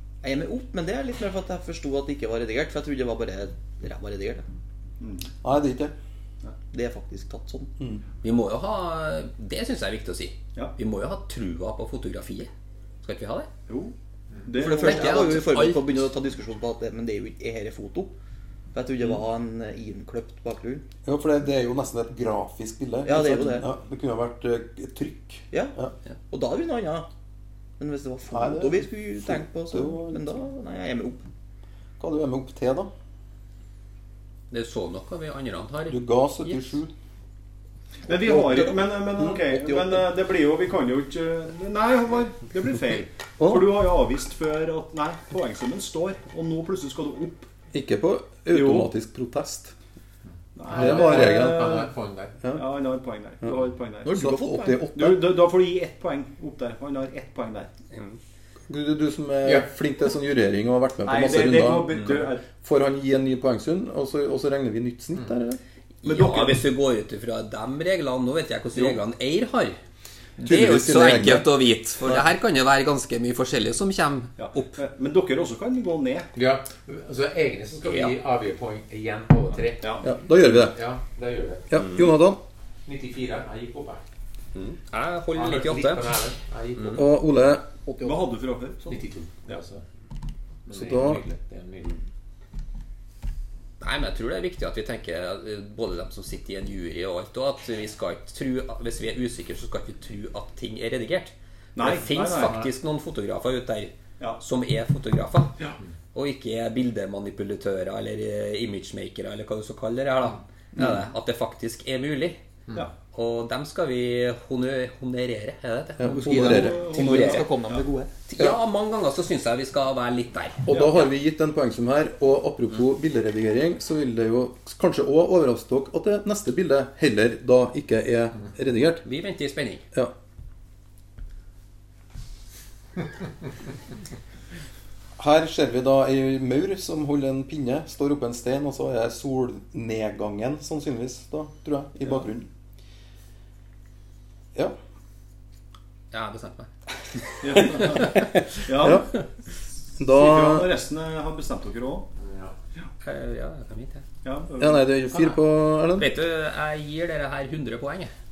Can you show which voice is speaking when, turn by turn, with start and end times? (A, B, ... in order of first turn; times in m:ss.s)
0:00.2-0:04.4 A
0:05.0-0:05.3 B
0:05.4-0:05.9 C
0:06.7-0:07.7 A
0:08.2-0:12.5 D
0:13.0-0:13.5 D
0:13.7-0:13.9 B
0:14.4-0:15.4 B
0:14.6-0:18.1 A
0:14.6-0:16.0 D
0:18.7-0:20.8 A
0:21.1-0:25.9 C
0:23.0-0:23.7 A
0:26.3-0:27.1 A
0:27.8-0:31.2 A
0:28.3-0:30.4 C
0:32.0-0:32.9 C
0:34.5-0:36.8 D
0:35.9-0:36.9 C
0:38.1-0:47.5 B
0:38.1-0:40.1 A
0:43.4-0:43.7 C
0:47.7-0:49.7 C
0:48.5-0:48.9 B
0:50.6-0:51.9 B
0:50.6-0:52.4 E
0:50.7-0:51.7 C
0:52.5-0:54.2 B
0:54.0-0:54.9 A
0:54.1-0:55.2 C
0:54.9-0:57.7 B
0:57.9-0:58.2 D
0:58.7-1:05.6 C
1:01.0-1:02.4 B
1:06.0-1:09.8 D
1:06.1-1:06.6 B
1:10.4-1:11.5 C
1:10.4-1:14.8 D
1:14.4-1:16.3 B
1:16.3-1:21.7 E
1:17.8-1:18.1 D
1:20.0-1:20.8 C
1:21.7-1:22.4 C
1:22.8-1:24.0 E
1:24.5-1:26.0 D
1:25.3-1:27.1 E
1:26.8-1:27.0 D
1:26.9-1:27.6 C
1:27.9-1:28.2 A
1:28.0-1:29.6 B
1:28.9-1:29.8 E
1:30.6-1:32.0 E
1:30.7-1:31.2 C
1:33.8-1:45.6 D
1:41.8-1:42.6 B
1:42.4-1:42.7 E
1:46.1-1:52.4 D
1:53.1-1:57.5 D
1:56.0-1:56.9 C
1:56.1-1:58.1 A
1:56.3-1:57.6 B
1:58.3-2:00.7 D
2:00.6-2:09.0 C
2:00.7-2:01.0 B
2:09.0-2:09.8 D
2:15.2-2:22.5 C
2:26.1-2:28.3 D
2:27.4-2:29.1 B
2:27.7-2:29.2 C
2:30.0-2:30.7 C
2:30.1-2:32.1 B
2:32.2-2:32.6 E
2:33.0-2:34.0 D
2:34.2-2:34.9 B
2:34.6-2:36.1 C
2:35.9-2:38.1 D